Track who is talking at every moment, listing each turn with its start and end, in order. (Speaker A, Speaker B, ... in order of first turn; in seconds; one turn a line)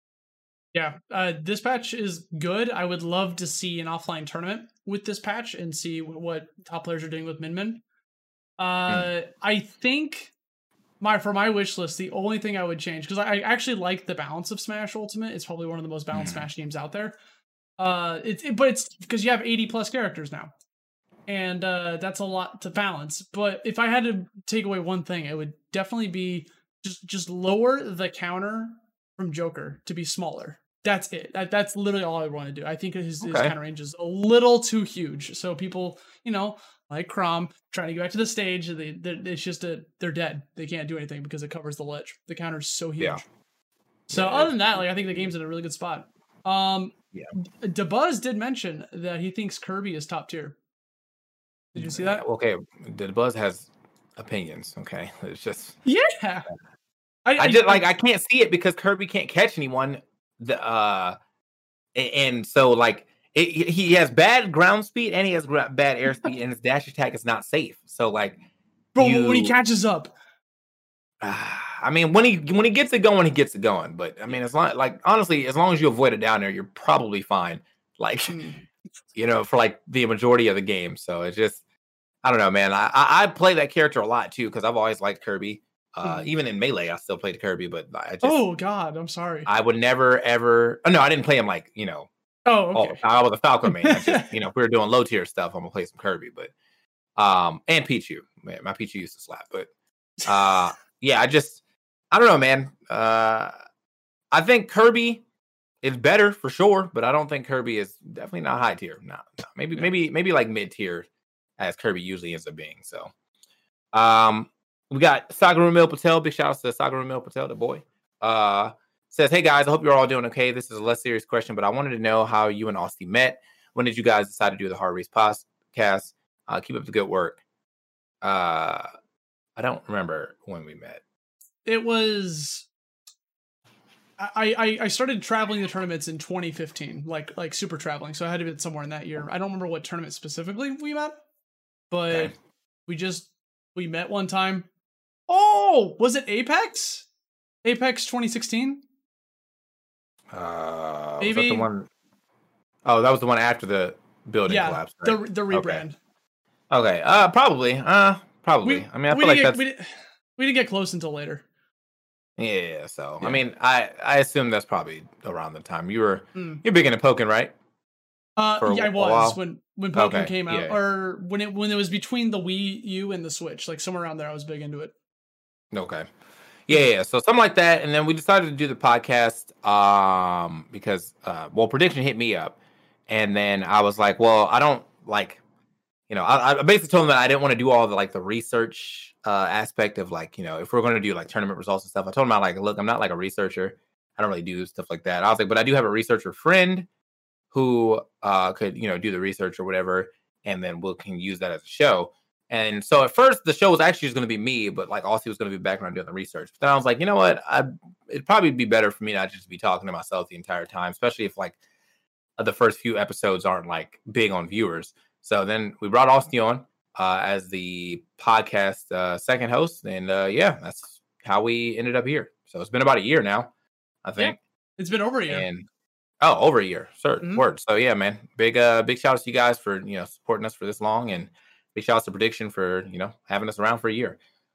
Speaker A: 0.7-7.8
Speaker A: 8.6-10.3
Speaker A: 11.0-17.1
Speaker B: 16.1-16.5
Speaker A: 17.8-20.5
Speaker A: 21.3-43.2
Speaker B: 33.2-33.5
Speaker A: 44.1-50.5
Speaker B: 44.1-45.3
Speaker A: 51.7-52.2
Speaker B: 51.8-55.8
Speaker A: 55.8-56.5
Speaker A: 57.2-57.8
Speaker B: 57.4-61.2
Speaker B: 61.9-68.4
Speaker B: 69.0-69.5
Speaker A: 69.0-70.1
Speaker B: 71.2-78.4
Speaker A: 78.3-78.6
Speaker B: 79.2-81.6
Speaker B: 82.2-88.4
Speaker A: 88.2-89.5
Speaker B: 89.5-92.1
Speaker A: 92.5-93.0
Speaker B: 92.7-96.5
Speaker A: 93.7-94.3
Speaker B: 97.2-99.7
Speaker B: 100.2-101.6
Speaker B: 102.1-103.5
Speaker B: 104.3-105.2
Speaker B: 105.8-111.0
Speaker B: 111.6-113.1
Speaker B: 113.9-127.4
Speaker B: 128.2-128.9
Speaker B: 129.6-131.0
Speaker A: 131.6-132.7
Speaker A: 134.2-141.2
Speaker A: 141.9-142.3
Speaker A: 142.9-144.7
Speaker A: 145.3-147.1
Speaker A: 147.6-148.8
Speaker B: 150.3-151.9
Speaker A: 151.2-151.7
Speaker B: 152.8-155.8
Speaker A: 154.4-155.9
Speaker B: 156.7-159.6
Speaker A: 158.6-161.4
Speaker B: 162.4-167.5
Speaker A: 166.3-166.6
Speaker A: 168.4-174.9
Speaker B: 168.6-169.4
Speaker B: 169.9-170.8
Speaker B: 175.7-176.1
Speaker B: 176.7-182.6
Speaker B: 183.1-185.4
Speaker B: 186.1-196.9
Speaker B: 197.5-211.6
Speaker B: 212.4-223.5
Speaker B: 224.0-224.3
Speaker A: 224.2-225.4
Speaker B: 225.3-225.7
Speaker B: 226.2-234.2